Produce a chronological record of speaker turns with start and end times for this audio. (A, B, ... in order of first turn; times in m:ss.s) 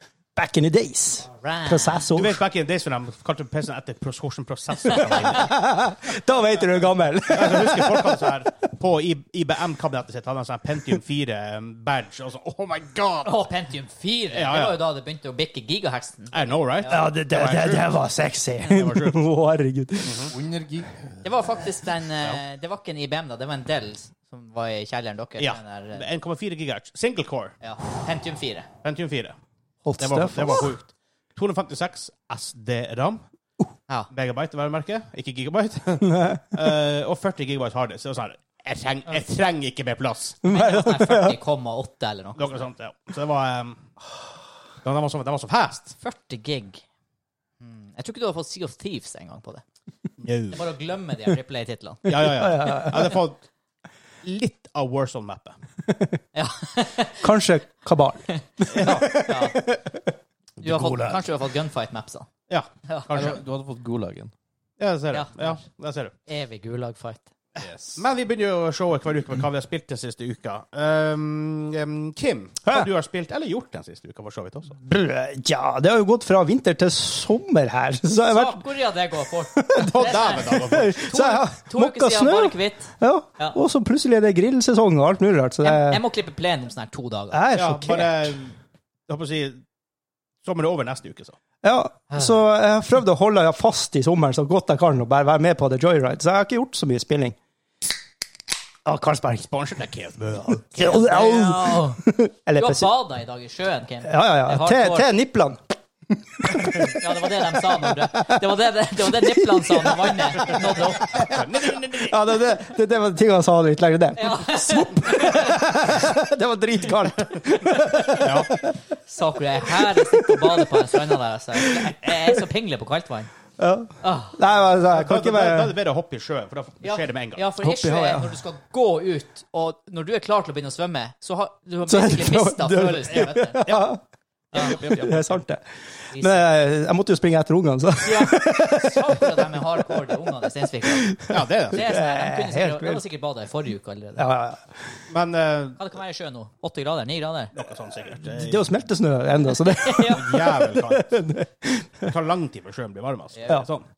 0:00.4-0:02.4 A
0:01.3-0:02.1 B
0:02.2-0:05.6 C
0:04.9-0:08.3 A
0:07.3-0:13.4 C
0:13.2-0:17.1 B
0:14.3-0:14.8 C
0:16.3-0:17.9 C
0:16.9-0:20.3 A
0:18.6-0:19.2 C
0:20.0-0:20.3 C
0:20.3-0:21.3 D
0:21.2-0:26.0 B
0:25.4-0:27.6 C
0:27.6-0:28.7 B
0:28.8-0:29.4 C
0:29.8-0:30.8 A
0:30.0-0:33.2 C
0:34.1-0:40.4 C
0:36.0-0:36.4 A
0:40.4-0:41.4 A
0:40.4-0:42.6 B
0:42.4-0:43.9 C
0:44.8-0:46.0 C
0:46.0-0:46.8 B
0:47.6-0:49.6 B
0:50.2-0:50.6 C
0:50.5-0:52.8 B
0:52.1-0:53.4 C
0:52.3-0:53.2 A
0:54.2-0:55.6 C
0:55.9-0:56.1 A
0:56.3-0:57.3 B
0:57.2-1:00.1 A
0:58.3-0:59.6 B
0:58.7-0:59.1 C
1:00.6-1:02.3 B
1:00.6-1:01.2 A
1:02.5-1:03.4 C
1:02.8-1:03.1 B
1:03.1-1:04.3 D
1:04.8-1:06.1 C
1:05.1-1:05.6 B
1:06.3-1:07.3 B
1:07.6-1:08.0 D
1:08.0-1:14.8 C
1:14.8-1:18.6 A
1:18.3-1:23.6 B
1:19.5-1:26.0 A
1:19.8-1:21.0 C
1:25.6-1:27.6 B
1:27.3-1:28.3 A
1:27.5-1:28.6 C
1:29.1-1:29.6 C
1:30.4-1:31.4 C
1:31.6-1:37.4 A
1:38.9-1:39.5 A
1:39.5-1:40.7 C
1:40.7-1:42.9 A
1:40.8-1:42.0 B
1:42.6-1:45.1 B
1:44.0-1:45.6 A
1:46.2-1:47.0 A
1:46.8-1:51.3 B
1:47.8-1:48.3 A
1:49.1-1:51.4 A
1:51.2-1:52.2 C
1:52.0-1:58.7 A
1:54.2-1:55.7 B
1:57.7-1:58.2 B
1:58.2-1:58.5 C
1:59.1-2:03.3 B
1:59.7-2:02.3 A
2:03.6-2:05.7 A
2:04.0-2:04.4 B
2:04.9-2:07.4 C
2:06.8-2:13.7 B
2:07.6-2:08.4 A
2:11.9-2:14.0 A
2:14.5-2:15.3 C
2:14.5-2:15.1 B
2:14.6-2:19.6 A
2:16.1-2:16.5 B
2:18.0-2:21.2 B
2:20.9-2:23.0 A
2:21.3-2:21.9 C
2:21.7-2:24.3 B
2:24.2-2:24.8 A
2:25.1-2:25.8 C
2:25.8-2:27.5 B
2:27.6-2:28.7 C
2:28.3-2:32.1 A
2:29.7-2:30.4 B
2:30.0-2:31.2 C
2:32.1-2:33.9 C
2:33.4-2:33.6 B